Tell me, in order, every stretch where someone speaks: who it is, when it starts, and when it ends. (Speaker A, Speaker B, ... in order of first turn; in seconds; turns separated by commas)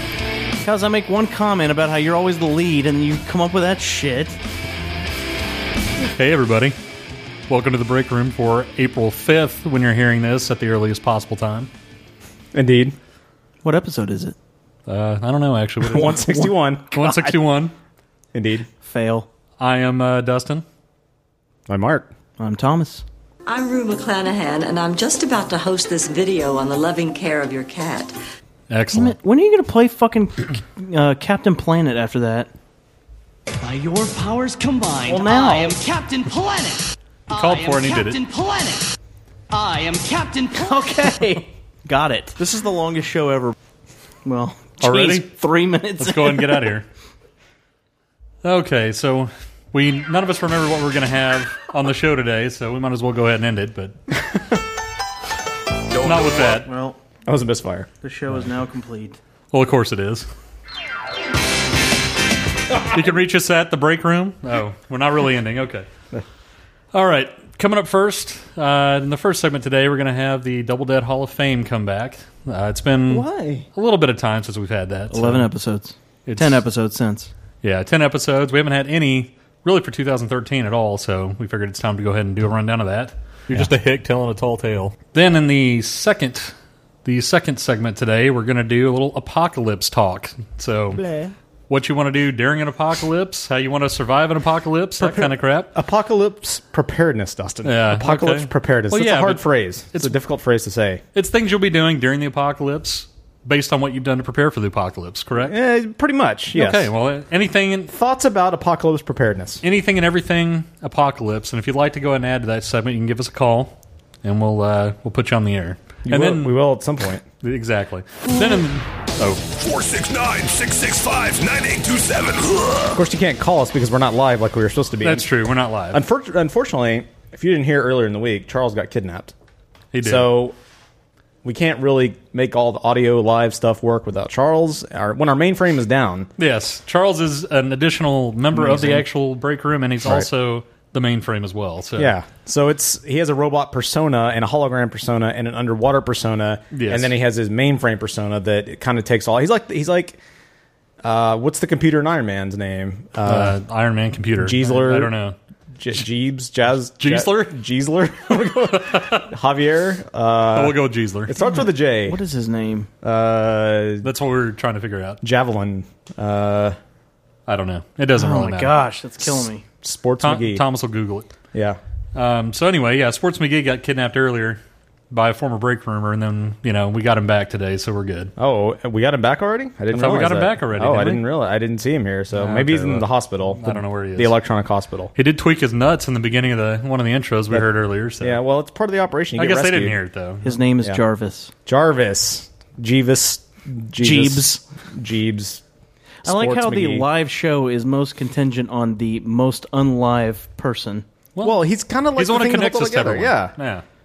Speaker A: 0.6-4.4, Speaker B: 6.1-6.8, Speaker B: 7.5-11.7, Speaker C: 12.5-12.9, Speaker A: 13.6-14.3, Speaker B: 14.9-16.4, Speaker C: 15.9-16.9, Speaker A: 16.1-16.4, Speaker B: 16.9-17.7, Speaker C: 18.3-18.7, Speaker A: 18.8-19.3, Speaker B: 19.6-20.6, Speaker C: 21.7-22.1, Speaker A: 22.4-23.0, Speaker D: 23.4-28.1, Speaker B: 28.7-29.1, Speaker A: 28.9-32.5, Speaker E: 33.6-38.9, Speaker A: 35.1-35.8, Speaker B: 37.3-38.2, Speaker E: 39.5-41.3, Speaker A: 40.6-43.5, Speaker A: 44.2-46.6, Speaker B: 44.8-45.3, Speaker B: 46.0-46.8, Speaker B: 48.4-54.0, Speaker B: 56.0-56.7, Speaker A: 56.6-57.0, Speaker C: 57.2-57.9, Speaker A: 58.0-59.2, Speaker B: 59.5-60.3, Speaker B: 62.9-65.9, Speaker B: 66.9-75.5, Speaker A: 73.1-73.7, Speaker A: 75.1-77.3, Speaker B: 76.3-76.6, Speaker B: 77.6-91.0, Speaker B: 91.7-95.7, Speaker C: 95.0-101.0, Speaker B: 97.6-100.2, Speaker B: 101.1-105.5, Speaker C: 105.4-106.9, Speaker B: 106.5-107.9, Speaker C: 107.9-109.6, Speaker B: 109.6-116.6, Speaker C: 116.0-117.2, Speaker B: 117.4-119.4, Speaker F: 119.5-123.0, Speaker C: 122.9-125.3, Speaker B: 125.0-126.0, Speaker C: 125.9-129.3, Speaker B: 129.9-130.3, Speaker C: 130.0-130.5, Speaker C: 131.4-136.3, Speaker B: 136.4-142.1, Speaker A: 138.6-139.0, Speaker C: 140.0-140.3, Speaker C: 142.0-150.2, Speaker B: 146.7-147.1, Speaker C: 151.0-153.6, Speaker B: 153.2-155.3, Speaker C: 154.4-155.1, Speaker C: 155.8-162.2, Speaker B: 157.0-157.6, Speaker B: 158.7-159.2, Speaker B: 160.5-161.3, Speaker A: 161.4-162.9, Speaker C: 163.0-164.1, Speaker B: 164.0-165.2, Speaker C: 165.2-166.8, Speaker B: 167.5-168.8, Speaker A: 168.2-169.6, Speaker C: 169.8-170.6, Speaker B: 170.2-171.3, Speaker C: 171.5-171.8, Speaker B: 172.1-174.6, Speaker B: 175.1-178.3, Speaker C: 178.4-185.1, Speaker B: 179.9-181.2, Speaker B: 182.3-184.3, Speaker B: 185.1-188.4, Speaker C: 188.2-189.9, Speaker B: 189.4-190.5, Speaker A: 190.4-191.5, Speaker C: 191.7-195.6, Speaker A: 194.0-194.6, Speaker A: 196.2-201.0, Speaker C: 196.2-197.1, Speaker C: 201.4-203.5, Speaker B: 202.2-203.8